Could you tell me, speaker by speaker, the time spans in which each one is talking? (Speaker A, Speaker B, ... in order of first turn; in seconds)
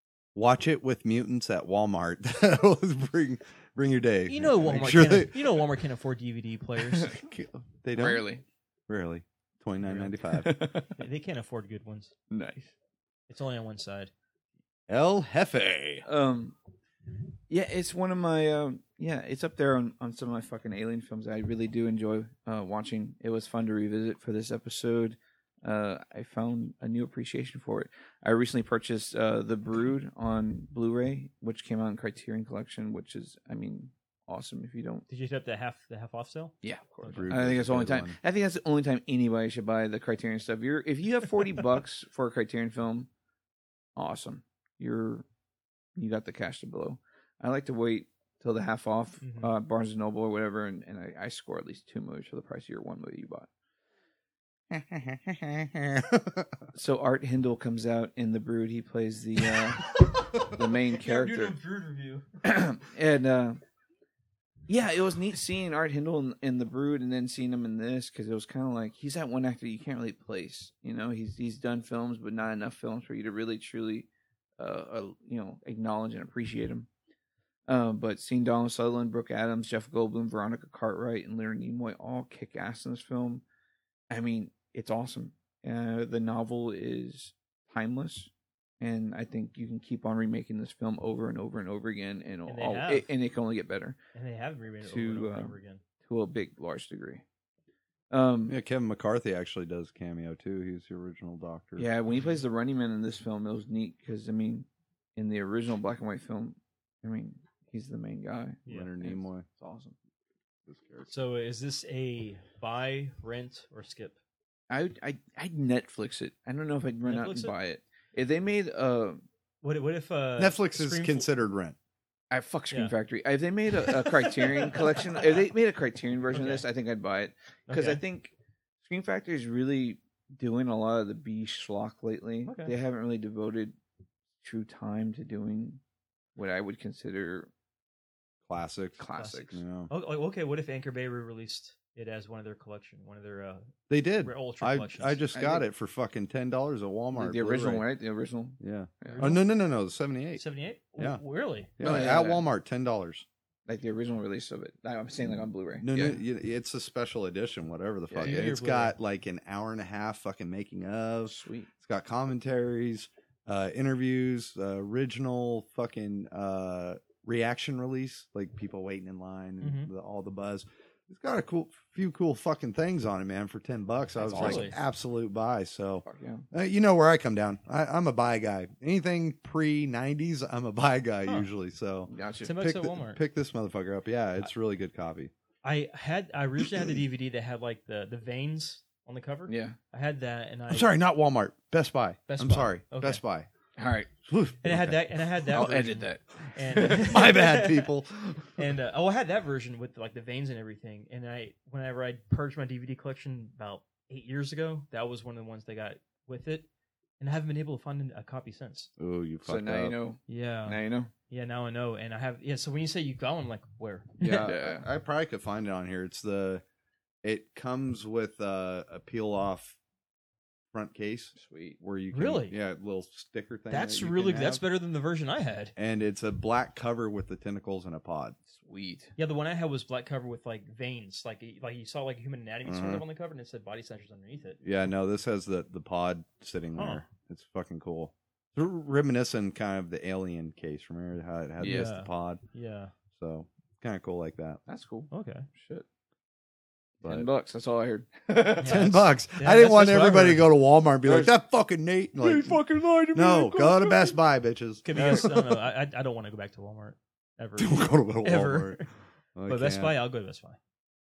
Speaker A: 0.3-5.6, 7.1-8.3, 8.9-10.5, 14.9-16.1, 37.0-38.2, 54.7-56.5, 98.5-101.9, 108.7-109.5, 110.7-111.1, 120.4-121.8, 138.5-139.9, 143.9-147.9, 148.6-150.4, 151.8-153.2, 155.8-185.3, 186.6-186.9, 190.7-193.5, 194.3-195.0, 196.9-198.4, 209.0-209.9, 214.2-216.6, 217.2-219.8, 220.7-224.6, 225.8-228.4, 232.6-233.0, 234.6-242.4, 243.1-244.6, 247.0-247.3, 248.6-255.5, 257.6-258.8, 259.4-259.9
Speaker B: 4.3-7.2, 9.8-10.1, 10.9-12.1, 13.3-14.1, 35.1-37.3, 49.2-49.5, 59.8-62.3, 92.5-93.1, 94.1-95.8, 108.7-108.9, 111.1-114.2, 117.0-117.5, 119.6-121.3, 124.2-124.9, 126.3-126.7, 127.7-128.0, 132.4-132.7, 139.2-145.2, 149.1-149.4, 150.4-151.7, 158.2-158.9, 169.6-169.9, 174.2-174.8, 182.4-183.2, 185.6-190.9, 192.3-193.2, 194.6-197.9, 198.6-206.7, 207.2-208.9, 210.3-214.5, 222.1-222.6, 223.7-225.7, 229.2-234.6, 236.8-237.0, 241.6-242.9, 245.1-245.5, 248.6-250.5, 254.8-258.9, 259.5-260.6
Speaker C: 8.0-8.4, 10.4-10.9, 12.3-12.7, 16.1-16.6, 17.5-35.0, 36.6-43.1, 44.0-45.3, 46.0-53.5, 56.7-61.5, 62.4-63.6, 64.7-74.1, 74.6-76.9, 77.7-83.4, 84.1-94.0, 94.8-97.2, 98.1-98.5, 101.8-110.0, 114.7-119.2, 122.3-128.3, 128.8-133.8, 134.4-135.8, 136.4-137.5, 139.0-139.6, 145.3-145.7, 147.1-149.3, 151.8-152.4, 153.7-156.2, 158.1-158.4, 161.3-161.7, 174.3-174.7, 176.0-176.4, 182.1-182.5, 189.5-189.8, 193.8-194.1, 195.5-197.2, 209.4-211.1, 214.3-214.8, 221.3-221.8, 228.5-229.1, 241.6-241.9, 244.7-245.8, 247.0-248.9, 251.0-251.3, 252.2-254.1, 254.9-255.3